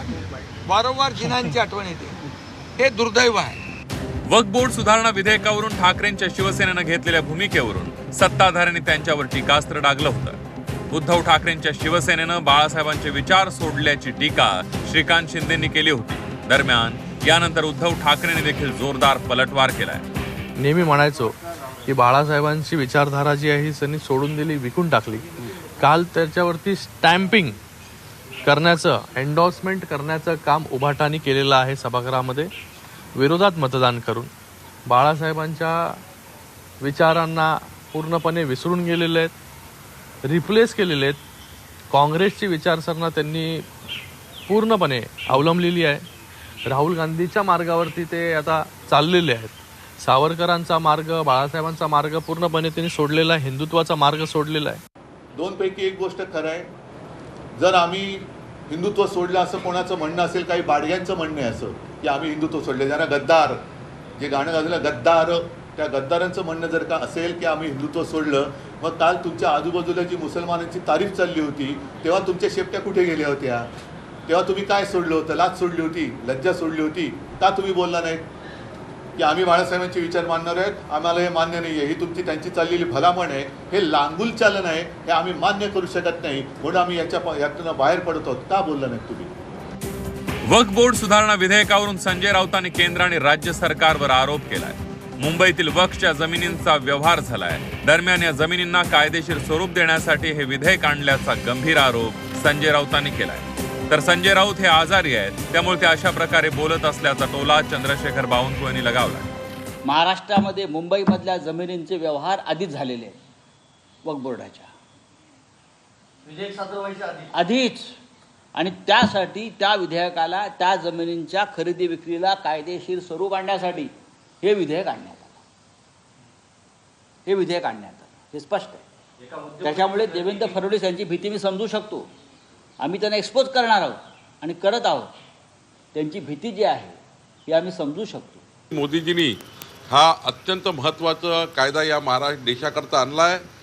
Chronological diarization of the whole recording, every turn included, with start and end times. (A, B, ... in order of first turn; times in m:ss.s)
0:00.6-0:02.2 A
0:02.8-0:03.6 A
0:04.3-0:10.4 B
0:10.9-0:20.0 B
0:20.6-0:27.6 C
0:28.4-0:32.5 C
0:33.2-0:34.3 C
0:34.9-0:36.0 C
0:36.8-0:39.3 C
0:40.2-0:41.2 C
0:41.9-0:43.6 C
0:44.5-0:46.1 C
0:46.7-0:54.8 C
0:55.3-0:56.7 D
0:57.6-1:03.6 D
1:04.2-1:13.7 D
1:14.3-1:18.2 D
1:19.2-1:29.3 D
1:30.4-1:49.3 B
1:49.8-1:53.2 E
1:54.0-1:54.7 E
1:57.3-1:58.0 E
1:58.5-2:03.9 E
2:04.4-2:05.4 E
2:07.2-2:08.8 E
2:09.6-2:12.1 E
2:12.8-2:15.1 E
2:15.9-2:18.4 E
2:18.7-2:23.4 F